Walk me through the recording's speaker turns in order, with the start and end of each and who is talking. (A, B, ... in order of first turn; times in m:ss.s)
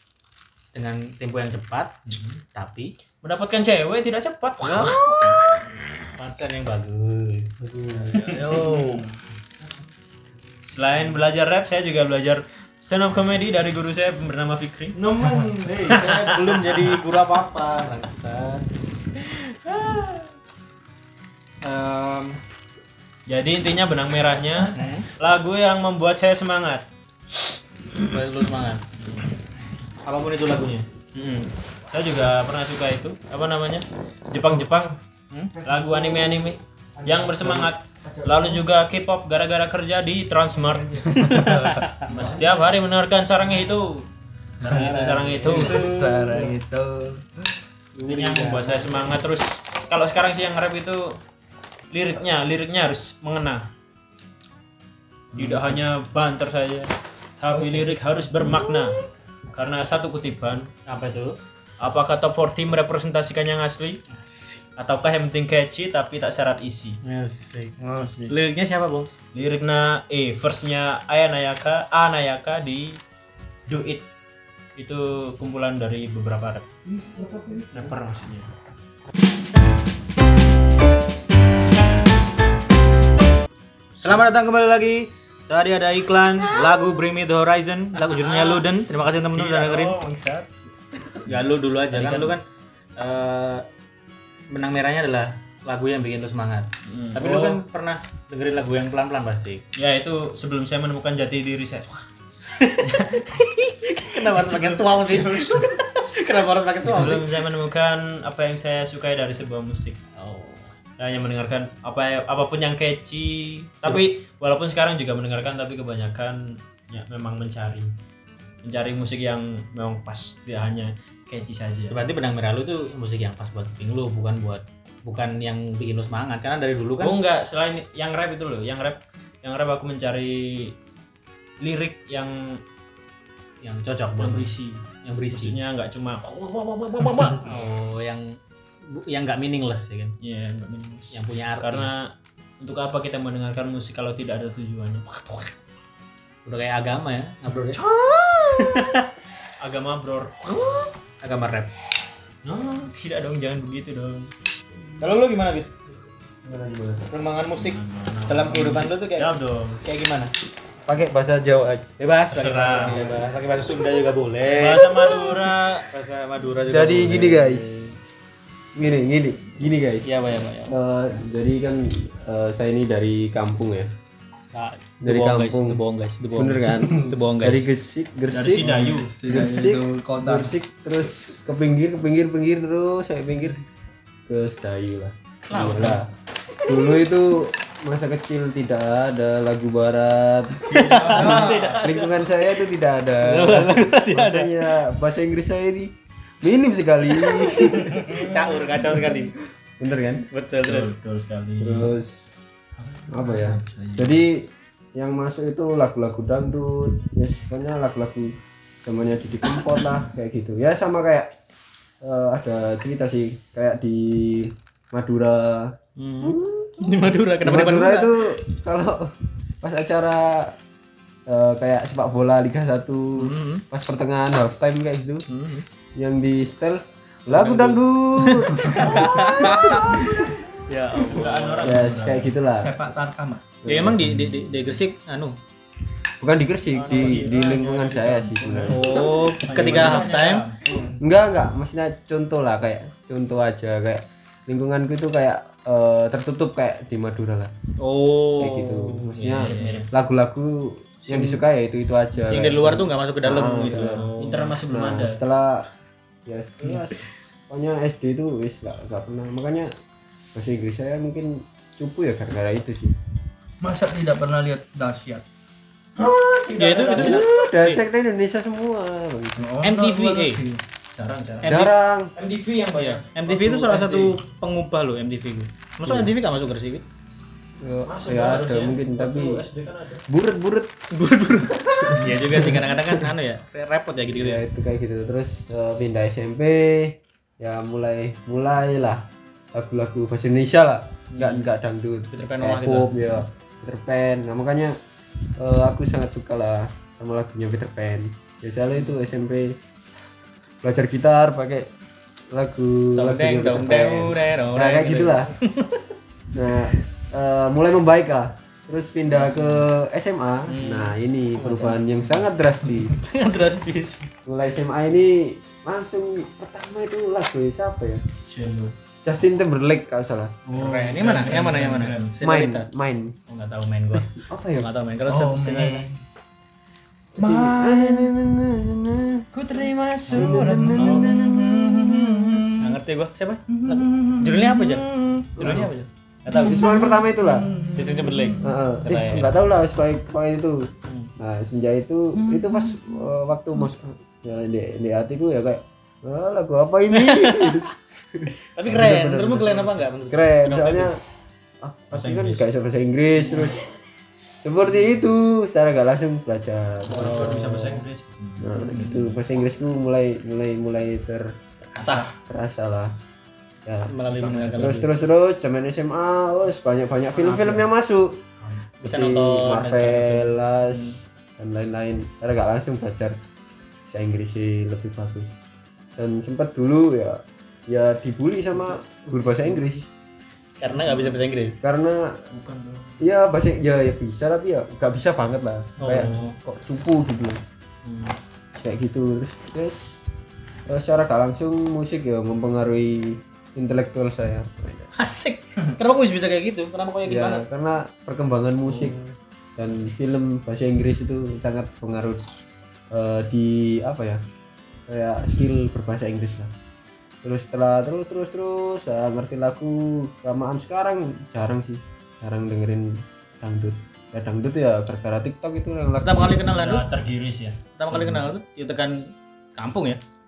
0:00.7-0:02.9 A
0:03.2-0:05.7 B
0:04.6-0:05.4 A
0:06.1-0:08.7 A
0:08.1-0:09.0 B
0:08.2-0:09.2 C
0:10.7-0:16.9 B
0:15.0-0:20.2 A
0:21.6-0:22.4 A
0:23.3-0:26.8 B
0:24.6-0:25.1 A
0:28.0-0:28.8 A
0:30.0-0:30.9 A
0:31.2-0:44.1 B
0:37.4-0:37.7 C
0:41.2-0:41.8 C
0:41.4-0:42.0 A
0:44.6-0:46.5 A
0:44.6-0:45.9 B
0:44.7-0:47.4 C
0:48.0-0:49.2 A
0:48.0-0:51.2 B
0:51.9-0:53.6 B
0:55.4-0:59.0 B
0:59.5-1:00.7 B
1:00.9-1:01.3 A
1:01.8-1:04.0 B
1:04.1-1:04.6 A
1:04.8-1:07.0 B
1:07.0-1:07.8 A
1:07.8-1:08.4 C
1:08.3-1:09.1 A
1:09.3-1:13.0 B
1:13.7-1:14.0 B
1:14.8-1:16.6 B
1:17.0-1:17.6 C
1:17.2-1:17.7 D
1:17.7-1:18.5 B
1:24.0-1:30.0 A
1:27.9-1:30.5 B
1:31.3-1:32.4 A
1:31.9-1:32.4 B
1:33.0-1:33.6 A
1:34.5-1:39.6 A
1:36.8-1:37.6 B
1:39.8-1:42.0 B
1:42.5-1:47.3 A
1:42.9-1:45.8 B
1:46.8-1:50.0 B
1:50.2-1:50.7 A
1:51.0-1:57.9 B
1:58.6-2:02.0 B
2:01.9-2:07.2 A
2:07.0-2:10.7 B
2:11.6-2:12.6 B
2:13.6-2:14.5 A
2:14.2-2:17.5 B
2:15.0-2:15.6 A
2:17.4-2:20.2 A
2:20.2-2:25.5 B
2:21.1-2:21.9 A
2:26.4-2:27.8 A
2:27.8-2:28.8 B
2:28.6-2:29.1 A
2:29.6-2:30.5 B
2:31.2-2:31.7 A
2:32.4-2:34.3 B
2:35.0-2:35.7 A
2:36.4-2:37.1 D
2:37.1-2:40.3 A
2:37.5-2:39.8 B
2:40.9-2:41.9 D
2:42.0-2:45.3 A
2:42.3-2:42.9 B
2:42.7-2:43.4 D
2:44.5-2:45.9 B
2:45.9-2:47.8 A
2:46.7-2:47.9 D
2:48.8-2:50.1 D
2:50.0-2:50.8 A
2:50.7-2:53.9 D
2:54.5-2:57.7 A
2:55.0-2:55.8 D
2:56.4-3:03.6 D
2:58.3-2:59.1 B
2:58.6-3:00.6 C
3:04.3-3:06.1 D
3:05.5-3:06.1 B
3:06.7-3:15.9 D
3:10.7-3:11.6 B
3:10.7-3:12.6 A
3:10.8-3:11.7 C
3:13.2-3:14.8 A
3:16.4-3:18.2 D
3:17.5-3:18.6 B
3:17.9-3:19.3 A
3:18.8-3:19.2 D
3:19.8-3:20.2 D
3:20.3-3:20.9 A
3:20.6-3:22.0 B
3:21.6-3:22.2 D
3:22.8-3:24.2 B
3:23.1-3:31.3 D
3:32.0-3:40.6 D
3:36.0-3:38.3 A
3:41.3-3:45.2 D
3:43.2-3:43.6 A
3:45.3-3:45.6 A
3:46.0-3:50.2 D
3:47.3-3:47.8 A
3:48.4-3:51.8 A
3:51.0-3:52.3 B
3:51.6-3:52.7 D
3:52.6-3:53.4 C
3:53.6-3:54.1 D
3:53.7-3:55.4 A
3:56.2-3:59.1 D
3:56.7-4:01.0 B
3:58.7-4:00.5 A
3:59.4-4:00.8 C
4:01.0-4:07.5 D
4:07.9-4:09.9 A
4:08.4-4:15.7 D
4:09.2-4:09.9 B
4:11.0-4:11.4 B
4:12.3-4:14.6 A
4:13.5-4:15.2 B
4:16.3-4:19.7 D
4:20.4-4:23.0 D
4:23.6-4:25.2 C
4:26.0-4:27.3 B
4:26.6-4:27.8 A
4:27.0-4:29.5 D
4:29.4-4:30.6 C
4:29.6-4:30.4 A
4:31.0-4:31.6 B
4:31.4-4:31.7 A
4:31.4-4:32.1 D
4:32.2-4:34.2 B
4:32.8-4:36.8 A
4:37.6-4:39.4 D
4:37.9-4:40.0 B
4:40.1-4:40.8 D
4:40.9-4:44.4 A
4:42.3-4:42.7 D
4:44.1-4:54.8 D
4:51.1-4:51.5 A
4:52.1-4:53.2 A
4:55.4-4:59.6 D
5:00.6-5:01.7 D
5:02.3-5:05.3 D
5:03.0-5:05.8 A
5:06.3-5:13.1 D
5:09.2-5:09.5 A
5:10.5-5:10.9 B
5:11.4-5:11.8 A
5:13.0-5:14.1 A
5:14.3-5:18.0 D
5:18.3-5:18.7 B
5:19.0-5:20.4 D
5:20.5-5:22.1 B
5:20.5-5:22.7 A
5:22.2-5:23.2 D
5:23.3-5:25.9 A
5:24.2-5:24.7 D
5:25.0-5:26.0 C
5:27.2-5:29.3 D
5:27.2-5:28.1 B
5:29.3-5:31.1 B
5:30.1-5:32.4 D
5:30.1-5:32.8 C
5:32.6-5:36.6 A
5:33.5-5:35.6 C
5:35.4-5:35.7 D
5:36.3-5:38.6 C
5:36.3-5:37.5 D
5:37.8-5:39.4 A
5:38.4-5:51.0 D
5:42.2-5:43.0 C
5:46.9-5:47.7 A
5:48.6-5:50.9 A
5:51.6-5:53.6 D
5:51.9-5:52.4 B
5:53.2-5:53.6 A
5:54.4-5:57.8 D
5:56.9-5:59.2 B
5:56.9-5:57.8 A
5:58.4-6:01.3 D
6:01.7-6:02.1 A
6:01.8-6:02.1 C
6:02.2-6:02.9 D
6:03.7-6:03.9 D
6:03.9-6:04.9 A
6:04.1-6:04.7 C
6:04.5-6:08.2 D
6:07.1-6:07.7 A
6:08.8-6:10.9 A
6:08.8-6:13.2 D
6:13.9-6:15.4 D
6:16.0-6:19.9 D
6:20.6-6:21.6 A
6:20.7-6:21.2 B
6:21.6-6:22.2 D
6:22.3-6:23.0 B
6:23.0-6:27.4 D
6:25.8-6:26.2 B
6:25.8-6:26.4 A
6:27.8-6:28.2 A
6:28.6-6:29.9 D
6:30.7-6:34.9 D
6:34.9-6:37.4 A
6:37.1-6:42.2 D
6:42.9-6:44.2 D
6:44.9-6:46.5 D
6:47.2-6:56.5 D
6:56.0-6:56.8 A
6:56.4-6:58.3 B
6:57.8-7:00.0 A